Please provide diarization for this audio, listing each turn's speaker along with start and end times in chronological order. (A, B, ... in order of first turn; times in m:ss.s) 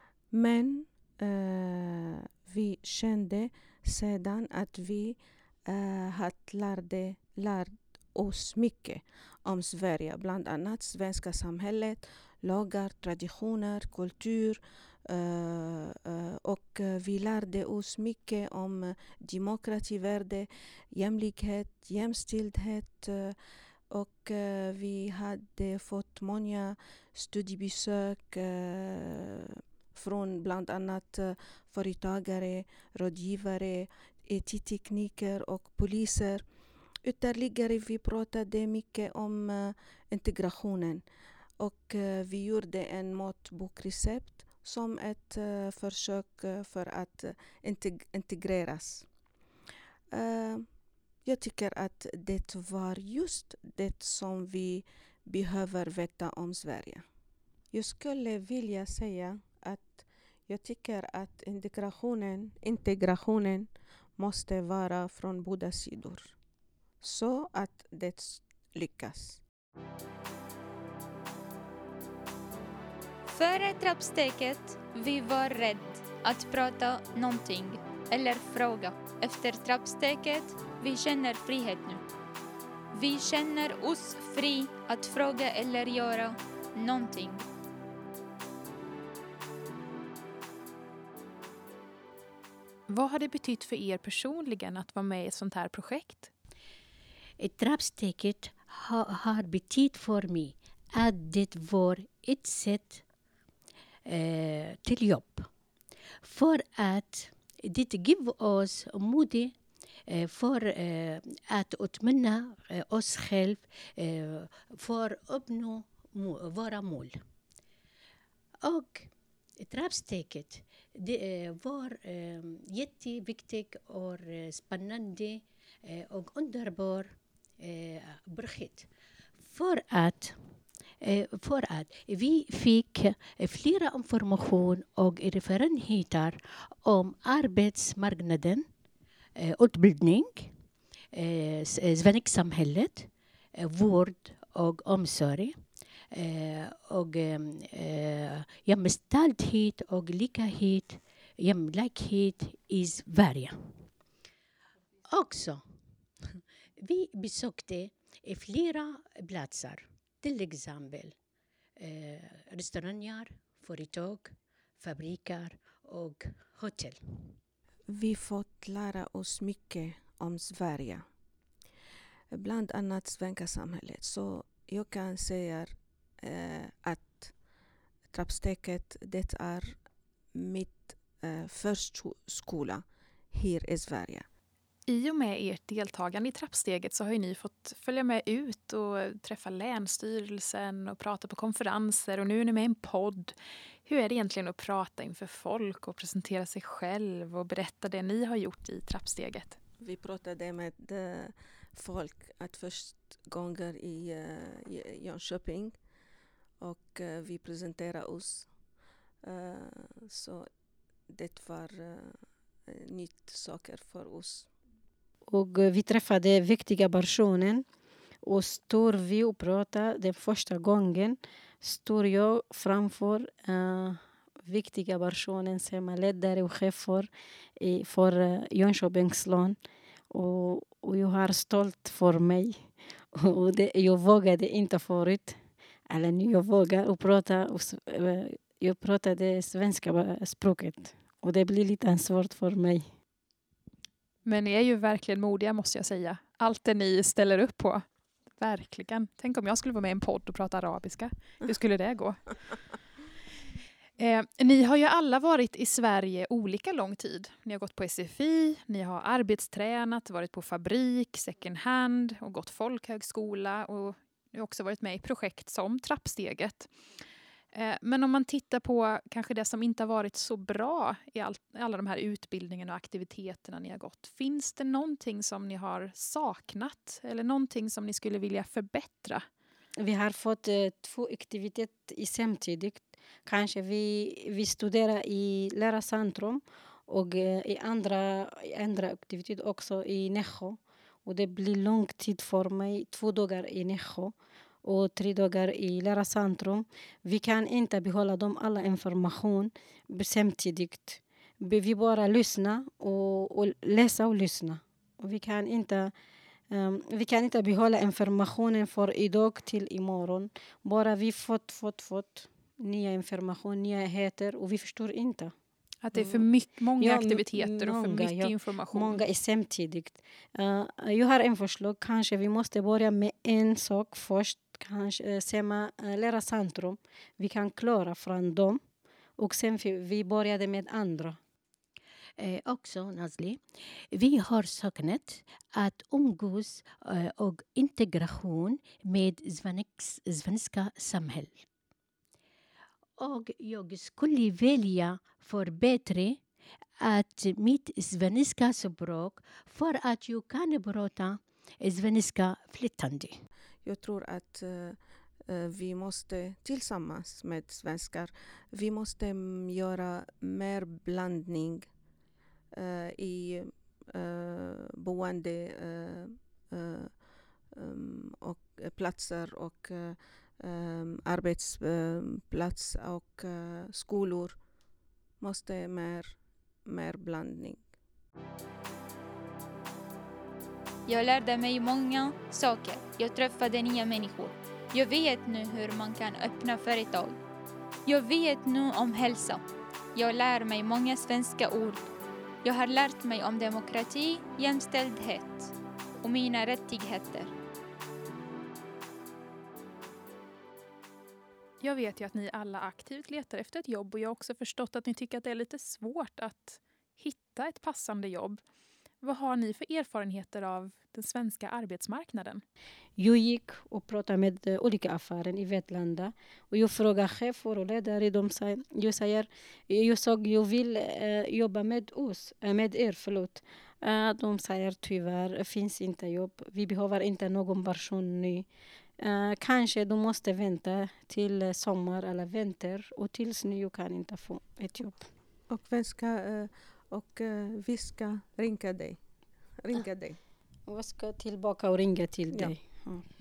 0:00.3-0:23.4 A
0:23.9-0:36.4 A
0:37.1-0:41.0 A
0:41.6-0:49.1 A
0:50.1-0:50.7 A
0:51.2-0:57.0 A
0:57.7-1:06.4 A
1:07.0-1:09.4 A
1:13.3-1:22.0 B
1:22.9-1:27.5 B
1:32.9-1:36.3 C
1:37.4-1:43.0 D
1:44.1-1:45.5 D
1:46.2-1:49.5 D
1:50.1-1:57.2 D
1:58.6-2:08.9 D
2:09.4-2:10.4 D
2:11.0-2:18.7 D
2:19.4-2:20.6 D
2:21.1-2:25.5 D
2:26.1-2:33.9 D
2:35.1-2:35.6 D
2:36.4-2:41.2 D
2:41.8-2:47.4 D
2:47.9-2:51.0 A
2:52.3-2:57.3 A
2:58.1-2:59.8 A
3:00.3-3:04.3 A
3:04.9-3:13.4 C
3:13.9-3:19.6 C
3:19.8-3:25.8 A
3:26.6-3:28.5 A
3:29.2-3:30.4 A
3:31.1-3:32.1 A
3:32.7-3:34.5 A
3:35.3-3:37.6 E
3:38.2-3:49.6 E
3:50.1-4:02.9 E
4:04.2-4:07.8 C
4:08.3-4:12.4 C
4:14.0-4:26.7 C
4:27.5-4:39.2 C
4:39.8-5:05.9 E
5:06.5-5:15.3 E
5:15.8-5:19.0 C
5:15.9-5:28.6 E
5:29.2-5:31.2 E
5:32.2-5:33.4 D
5:33.9-5:41.4 D
5:43.0-5:46.2 D
5:46.8-5:53.2 D
5:53.6-5:54.8 A
5:55.3-6:01.7 A
6:02.5-6:06.9 A
6:07.6-6:14.4 A
6:15.2-6:17.6 A
6:20.9-6:27.2 B
6:27.8-6:29.4 B
6:29.9-6:31.9 B
6:32.4-6:37.3 B
6:41.6-6:48.4 C
6:49.0-6:52.4 C
6:53.0-7:08.5 E
7:09.0-7:15.1 E
7:15.5-7:19.0 A
7:19.6-7:20.2 A
7:20.7-7:23.0 E